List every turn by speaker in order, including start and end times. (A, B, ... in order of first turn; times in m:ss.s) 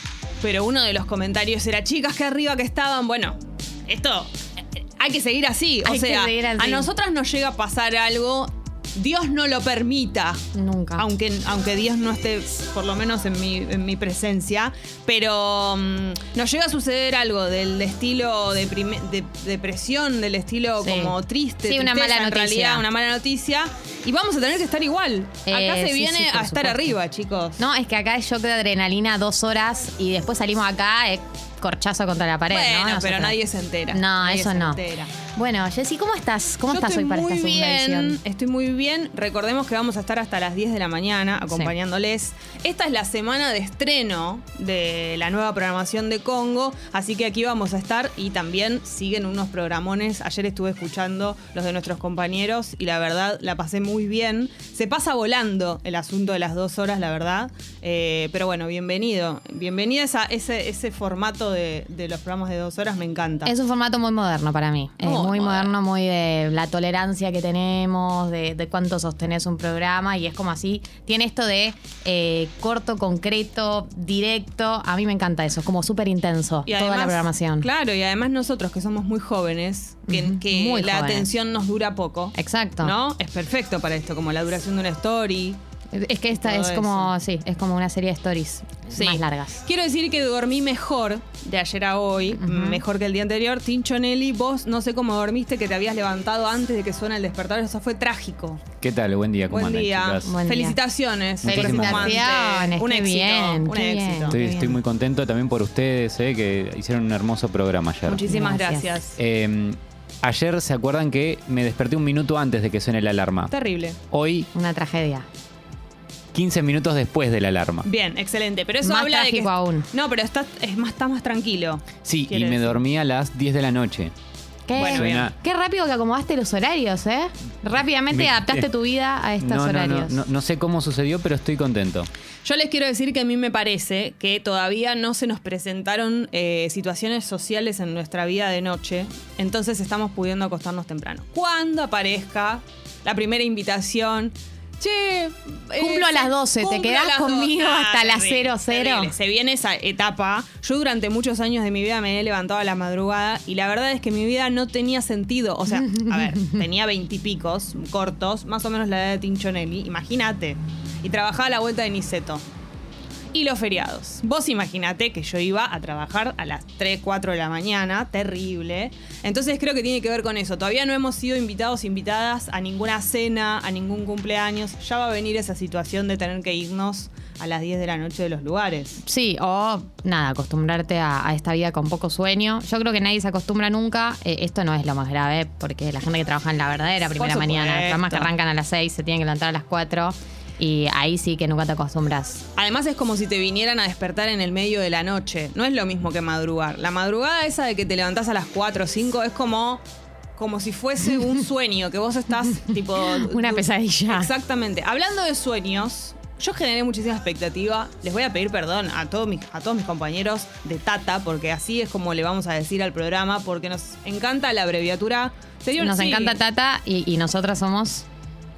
0:00.4-0:04.3 A
0:05.0-0:10.4 A
0:05.8-0:06.9 B
0:10.5-0:11.0 B
0:11.0-0:27.6 A
0:20.8-0:22.8 B
0:25.5-0:26.9 B
0:27.6-0:33.4 B
0:32.5-0:35.1 A
0:33.9-0:34.8 B
0:35.3-0:38.2 B
0:36.7-1:03.5 A
1:03.4-1:17.7 B
1:05.0-1:05.7 A
1:16.7-1:25.6 A
1:20.1-1:21.3 B
1:22.3-1:22.9 B
1:25.9-1:29.6 B
1:26.3-1:27.1 A
1:28.9-1:38.6 A
1:32.4-1:32.8 B
1:38.8-1:40.4 C
1:39.5-1:44.8 A
1:40.2-1:40.8 B
1:41.4-1:42.3 C
1:41.4-1:44.6 B
1:44.3-1:48.3 C
1:48.0-1:49.2 A
1:48.3-1:49.0 B
1:49.2-1:53.5 C
1:53.5-1:54.0 A
1:54.1-1:54.5 C
1:54.5-1:55.2 B
1:56.3-1:57.9 C
1:57.8-2:02.8 A
1:58.8-1:59.9 B
2:02.0-2:04.1 C
2:04.7-2:10.2 B
2:04.7-2:05.4 C
2:04.7-2:05.3 A
2:08.1-2:08.6 C
2:09.4-2:12.1 C
2:12.4-2:42.4 A
2:25.7-2:29.1 B
2:43.3-2:59.0 A
2:59.0-3:12.4 B
3:07.1-3:08.3 A
3:12.6-3:19.8 A
3:20.4-3:36.4 A
3:23.0-3:24.3 B
3:35.8-3:38.0 B